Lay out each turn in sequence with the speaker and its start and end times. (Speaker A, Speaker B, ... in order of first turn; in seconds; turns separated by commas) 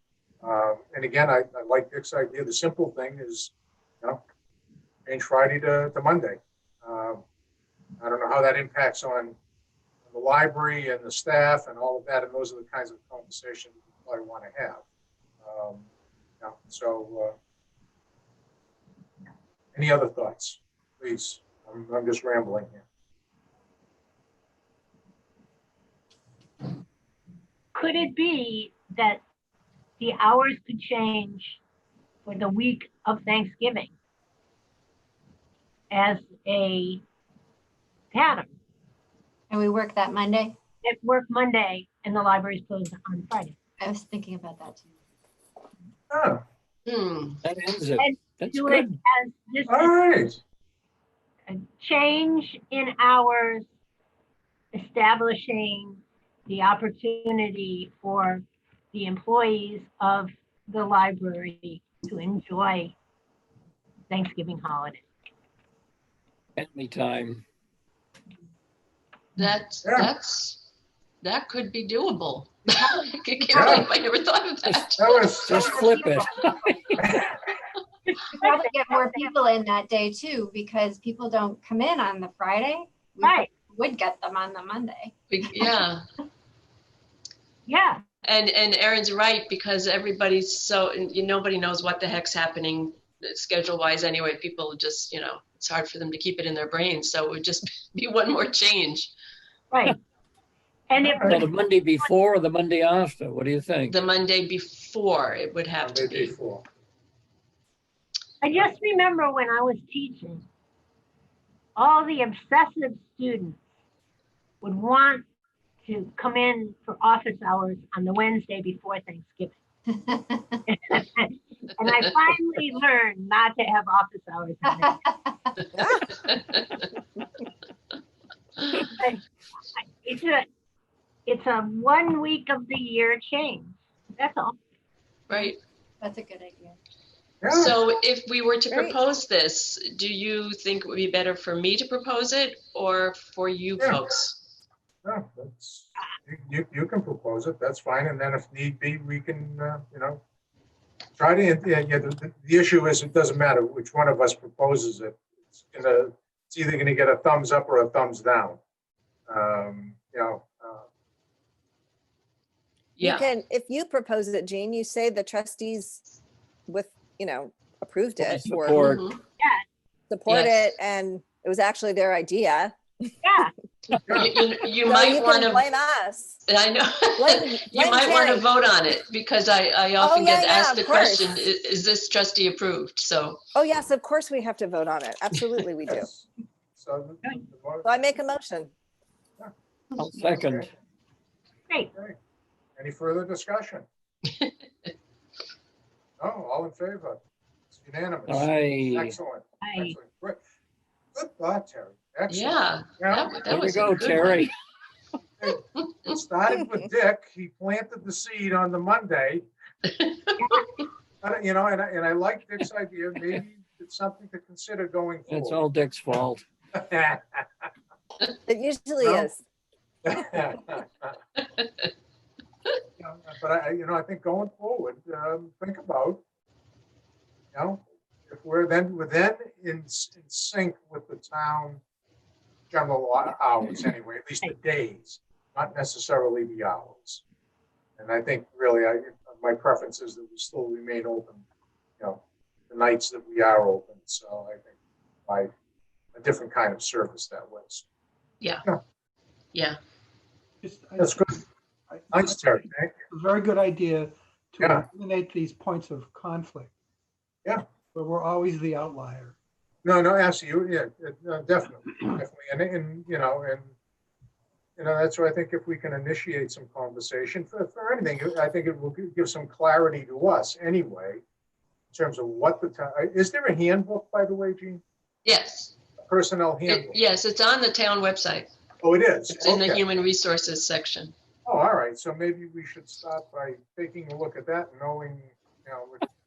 Speaker A: 0.4-4.2, Speaker A: 5.0-7.2, Speaker A: 8.0-9.3, Speaker A: 10.1-14.8, Speaker A: 15.4-15.9, Speaker A: 16.4-17.3, Speaker A: 19.7-22.8, Speaker B: 27.7-29.2, Speaker B: 30.0-31.6, Speaker B: 32.2-33.9, Speaker B: 35.9-37.0, Speaker B: 38.1-38.5, Speaker C: 39.5-40.6, Speaker B: 40.8-43.5, Speaker C: 43.8-44.9, Speaker A: 46.1-46.4, Speaker D: 46.9-47.4, Speaker E: 47.4-49.0, Speaker B: 48.0-49.9, Speaker A: 49.7-50.4, Speaker B: 51.5-53.6, Speaker B: 54.7-62.9, Speaker B: 64.1-65.0, Speaker E: 66.6-67.4, Speaker D: 69.4-70.6, Speaker A: 69.8-70.1, Speaker D: 71.2-75.3, Speaker A: 73.5-73.9, Speaker A: 75.0-75.8, Speaker E: 75.4-77.2, Speaker C: 75.5-76.7, Speaker A: 77.0-77.3, Speaker B: 78.1-79.3, Speaker C: 78.3-85.7, Speaker B: 83.2-83.5, Speaker D: 85.3-86.0, Speaker B: 87.7-88.0, Speaker D: 88.2-99.1, Speaker B: 99.7-100.0, Speaker B: 100.9-102.0, Speaker A: 101.0-101.4, Speaker E: 101.2-104.0, Speaker D: 103.9-106.3, Speaker A: 105.8-106.6, Speaker B: 108.4-110.5, Speaker B: 111.8-113.6, Speaker B: 114.6-115.2, Speaker B: 115.8-119.5, Speaker C: 120.0-120.6, Speaker B: 120.7-125.0, Speaker C: 124.6-125.3, Speaker F: 125.8-126.1, Speaker B: 129.0-129.2, Speaker B: 129.7-130.4, Speaker B: 131.2-134.6, Speaker D: 135.3-135.6, Speaker C: 136.0-136.8, Speaker A: 137.4-137.8, Speaker D: 137.5-144.4, Speaker F: 138.7-138.9, Speaker A: 145.0-150.2, Speaker A: 151.2-158.6, Speaker A: 159.3-160.8, Speaker D: 163.0-163.3, Speaker F: 163.0-166.0, Speaker F: 166.7-168.8, Speaker E: 168.2-169.0, Speaker D: 168.7-169.2, Speaker B: 169.4-169.6, Speaker F: 170.1-172.8, Speaker D: 170.3-170.7, Speaker B: 173.2-173.5, Speaker D: 174.1-175.6, Speaker F: 174.8-176.4, Speaker D: 176.4-183.4, Speaker F: 177.2-178.4, Speaker F: 180.0-181.4, Speaker F: 183.5-186.1, Speaker A: 185.9-187.8, Speaker F: 187.8-188.7, Speaker E: 190.0-190.7, Speaker A: 190.1-190.7, Speaker A: 192.8-193.8, Speaker D: 194.3-194.9, Speaker A: 196.2-197.2, Speaker A: 197.7-200.4, Speaker E: 198.3-199.2, Speaker B: 199.6-200.0, Speaker A: 201.1-203.3, Speaker D: 202.3-204.5, Speaker E: 203.5-204.5, Speaker A: 205.4-209.5, Speaker D: 209.9-210.6, Speaker A: 211.2-215.6, Speaker E: 215.3-216.4, Speaker A: 216.7-217.7, Speaker F: 218.5-219.4, Speaker A: 219.0-219.3, Speaker A: 220.0-221.2, Speaker A: 223.0-226.2, Speaker A: 227.5-231.8, Speaker A: 232.7-237.2, Speaker A: 238.0-241.4, Speaker A: 242.0-244.7, Speaker A: 246.1-247.8, Speaker G: 250.6-256.7, Speaker A: 251.0-251.4, Speaker A: 252.1-252.9, Speaker A: 254.6-254.8, Speaker G: 257.9-259.3, Speaker A: 259.8-263.7, Speaker A: 264.8-271.2, Speaker A: 271.9-274.8, Speaker D: 275.2-275.7, Speaker A: 276.0-277.0, Speaker D: 276.7-278.5, Speaker A: 278.8-279.8, Speaker D: 279.3-281.1, Speaker A: 281.4-286.0